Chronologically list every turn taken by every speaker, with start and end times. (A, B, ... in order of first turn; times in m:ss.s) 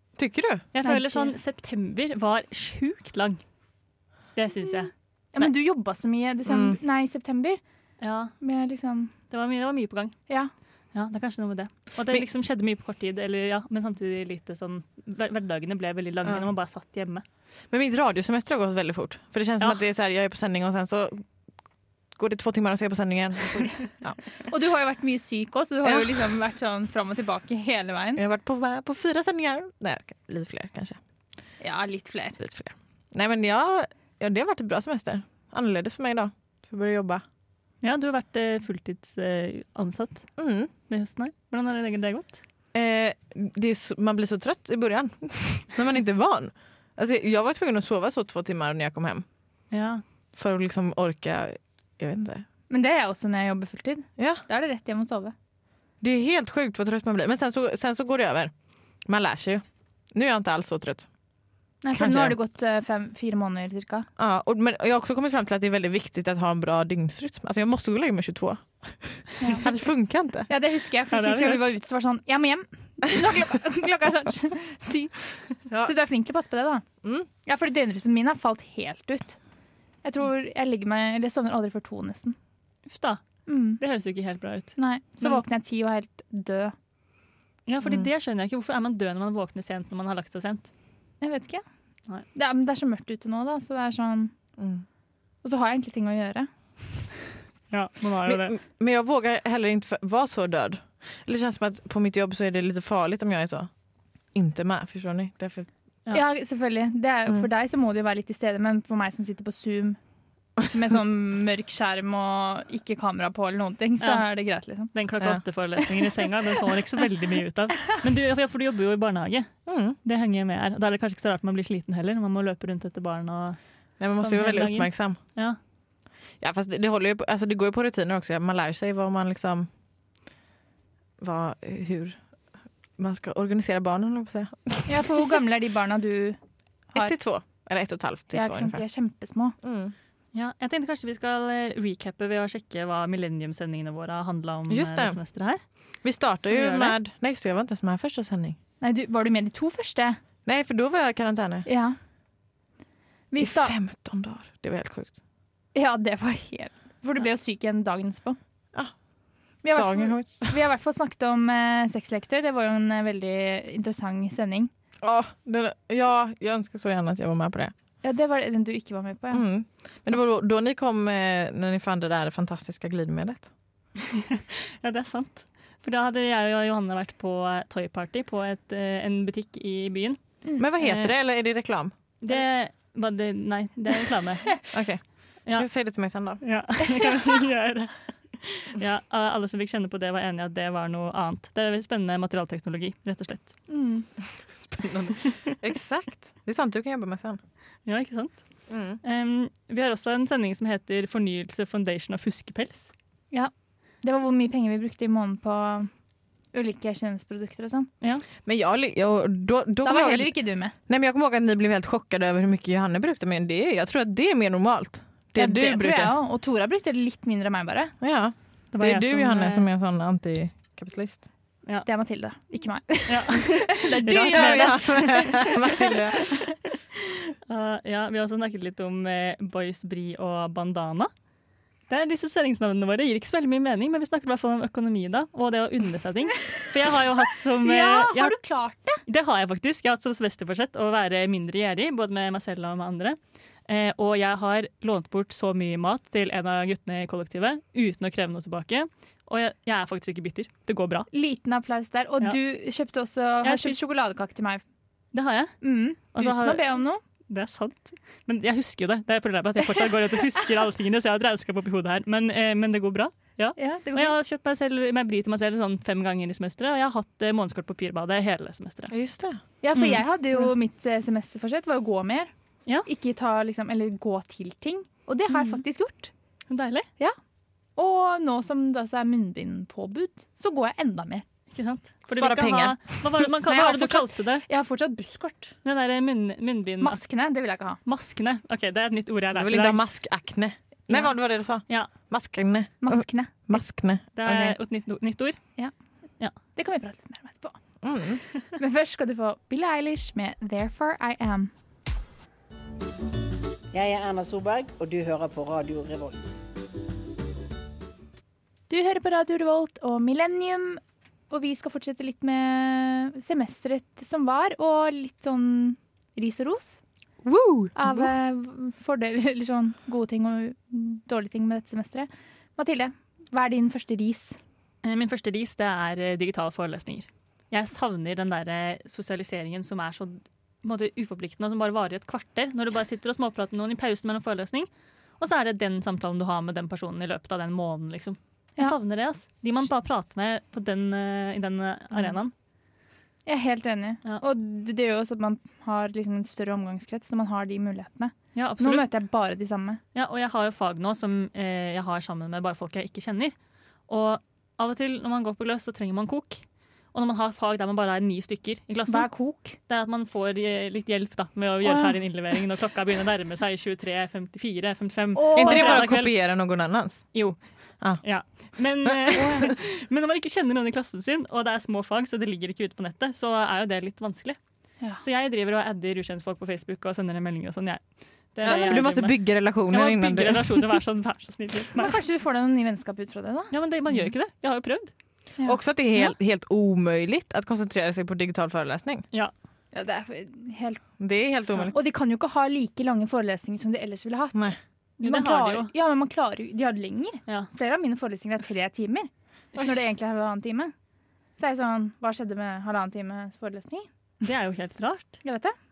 0:00.2-0:00.6 A
0:00.7-0:03.4 B
0:00.8-0:01.3 C
0:04.4-0:05.5 B
0:05.3-0:07.6 C
0:06.5-0:06.8 A
0:08.0-0:08.3 B
0:08.4-0:09.1 C
0:09.3-0:10.2 B
0:10.9-0:17.2 B
0:17.7-0:21.2 A
0:22.2-0:24.2 A
0:24.5-0:28.2 C
0:25.8-0:26.1 A
0:28.2-0:31.0 A
0:31.6-0:32.4 C
0:32.4-0:37.2 A
0:37.8-0:40.3 B
0:40.4-0:40.7 A
0:40.9-0:42.4 B
0:42.7-0:49.2 A
0:49.7-0:50.0 B
0:50.4-0:52.4 A
0:52.7-0:55.3 C
0:56.0-0:58.5 A
0:59.1-1:01.1 A
1:01.8-1:04.1 C
1:01.9-1:02.4 A
1:04.2-1:10.5 A
1:10.5-1:15.2 C
1:11.1-1:11.7 B
1:15.7-1:16.8 C
1:17.4-1:19.4 C
1:20.0-1:22.4 C
1:22.9-1:23.2 B
1:23.5-1:23.8 C
1:23.8-1:25.4 B
1:24.8-1:26.8 C
1:27.7-1:30.7 B
1:27.8-1:28.1 A
1:31.2-1:31.6 C
1:32.3-1:34.3 C
1:34.6-1:34.8 A
1:35.4-1:36.5 C
1:37.7-1:38.5 B
1:38.2-1:43.7 A
1:44.3-1:45.7 A
1:46.1-1:50.0 C
1:50.7-1:54.9 C
1:54.9-1:59.5 B
1:59.7-2:00.0 A
2:00.0-2:03.6 B
2:04.0-2:05.2 A
2:04.2-2:05.6 B
2:06.4-2:09.7 A
2:11.2-2:12.2 A
2:13.0-2:15.2 A
2:14.9-2:16.4 C
2:17.0-2:18.8 A
2:18.3-2:19.6 C
2:19.6-2:19.9 A
2:20.3-2:25.6 B
2:24.7-2:25.2 A
2:26.0-2:28.6 A
2:26.5-2:27.0 B
2:28.8-2:30.2 C
2:30.4-2:31.7 A
2:31.7-2:32.0 C
2:33.3-2:33.8 C
2:33.4-2:35.2 A
2:35.8-2:38.4 C
2:39.6-2:44.7 C
2:39.7-2:40.6 A
2:45.0-2:47.7 A
2:48.0-2:49.4 C
2:49.3-2:53.5 A
2:54.2-3:00.2 B
3:00.6-3:01.9 A
3:00.8-3:01.1 B
3:02.2-3:04.7 B
3:04.7-3:06.4 A
3:06.4-3:13.5 B
3:13.7-3:14.1 C
3:14.7-3:17.4 A
3:17.9-3:18.4 B
3:18.7-3:19.0 A
3:19.0-3:22.9 B
3:24.0-3:25.9 C
3:26.5-3:27.9 C
3:28.4-3:36.1 A
3:29.8-3:30.8 C
3:35.4-3:37.9 C
3:38.0-3:41.3 A
3:38.7-3:39.7 B
3:41.8-3:46.3 C
3:43.1-3:45.4 B
3:44.0-3:46.4 A
3:47.5-3:51.1 B
3:51.9-3:58.4 B
3:57.6-3:59.0 C
3:59.1-4:11.1 B
4:11.1-4:14.6 C
4:13.4-4:13.8 B
4:15.1-4:15.6 B
4:15.6-4:17.0 C
4:16.1-4:28.9 B
4:23.6-4:24.2 C
4:28.9-4:29.4 A
4:29.6-4:32.3 C
4:29.8-4:30.0 B
4:32.9-4:36.1 C
4:36.5-4:36.9 B
4:37.8-4:41.2 C
4:41.5-4:44.4 B
4:42.1-4:42.8 A
4:43.5-4:45.6 C
4:45.6-4:47.0 B
4:46.8-4:47.8 C
4:47.8-4:49.8 B
4:49.3-4:54.6 A
4:52.8-4:53.4 C
4:54.2-4:55.4 B
4:56.6-4:57.6 C
4:57.8-4:58.2 A
4:58.6-5:01.5 C
5:03.7-5:06.4 D
5:08.7-5:16.8 C
5:17.2-5:18.1 B
5:17.8-5:24.4 C
5:24.8-5:34.7 B
5:35.2-5:42.3 B
5:43.3-5:49.8 C
5:48.4-5:48.9 B
5:50.0-5:53.4 B
5:53.9-5:56.4 B
5:56.9-6:06.1 B
5:58.9-5:59.6 C
6:01.6-6:02.0 C
6:05.2-6:05.8 C
6:05.3-6:07.0 A
6:08.0-6:14.4 B
6:08.8-6:09.5 A
6:15.0-6:17.8 B
6:18.3-6:22.0 B
6:18.4-6:20.8 A
6:18.4-6:18.8 C
6:21.8-6:23.5 C
6:23.5-6:24.9 B
6:25.4-6:26.1 C
6:25.4-6:29.0 A
6:29.7-6:30.8 C
6:31.0-6:31.8 A
6:31.7-6:40.7 C
6:35.0-6:35.7 B
6:41.4-6:43.9 C
6:44.2-6:45.2 B
6:45.2-6:45.5 C